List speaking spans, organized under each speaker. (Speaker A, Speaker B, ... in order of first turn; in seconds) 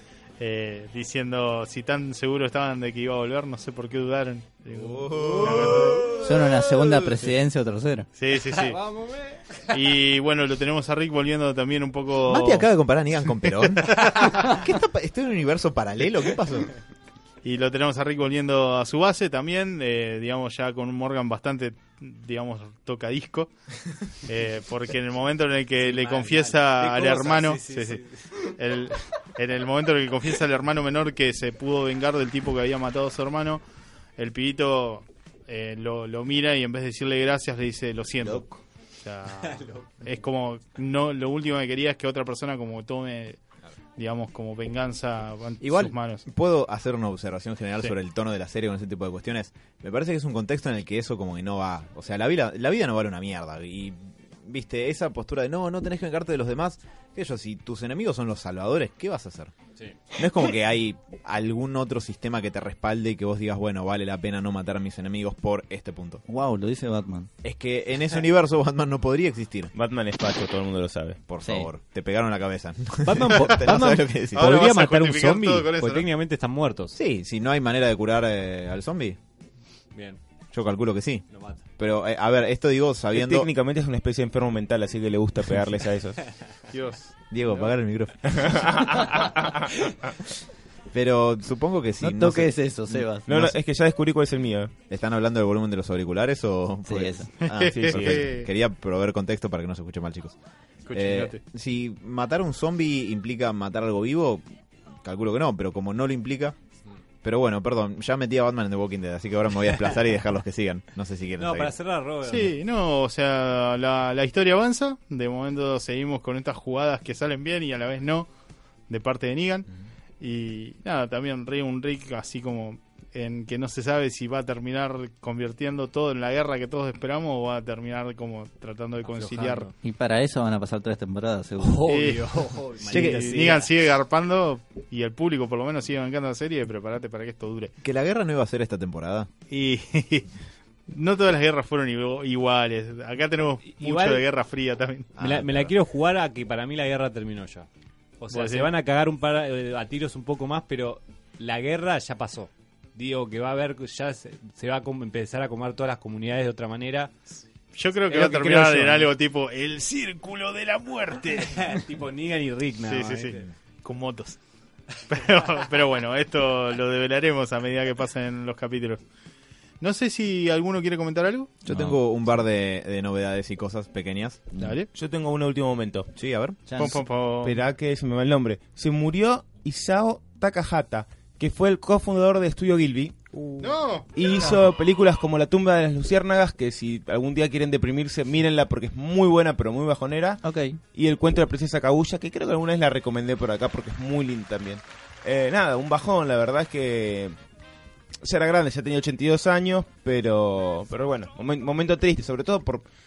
Speaker A: 0.4-6.2, 8.2-8.8, 9.7-12.7, 13.8-14.5, 17.4-23.5, 24.2-33.6, 34.2-43.4, 44.0-46.2, 73.3-73.5, 74.3-76.1, 86.7-87.6, 97.4-98.5, 100.9-101.4, 112.2-118.3, 118.9-119.7, 120.2-129.7, 131.9-137.7, 139.5-140.3, 140.9-145.2, 148.3-148.7, 157.8-161.8, 162.8-164.4, 165.1-169.0, 169.8-171.6, 174.6-174.9, 176.8-177.6, 183.6-184.1
Speaker B: 4.8-6.0, 12.2-16.7, 45.6-59.5, 60.1-66.2, 67.4-69.7, 71.3-74.5, 77.0-79.2, 80.5-81.3, 81.8-83.5, 87.3-88.5, 90.9-93.5, 94.9-100.4, 100.9-104.4, 105.0-106.6, 107.2-111.7, 132.9-133.5, 137.8-139.3, 145.2-145.7, 171.7-174.7, 176.2-176.6
Speaker C: 5.0-6.2, 8.3-9.8, 25.8-28.3, 39.4-40.0, 73.0-77.0, 79.9-80.2, 81.3-81.6, 111.4-112.5, 129.1-129.7, 131.6-133.7, 143.8-144.2, 145.2-147.7, 148.2-157.1, 158.1-159.1, 161.4-163.5
Speaker D: 6.2-8.1, 66.3-67.3, 71.4-71.7, 92.0-93.3, 96.9-97.3, 129.8-131.8, 171.7-171.9, 176.7-177.0, 183.3-183.7, 190.4-190.8
Speaker E: 69.8-71.2, 83.1-86.2, 88.3-89.7, 93.3-94.7, 97.7-98.3, 174.9-176.1, 177.4-183.2, 184.2-197.4, 198.2-202.9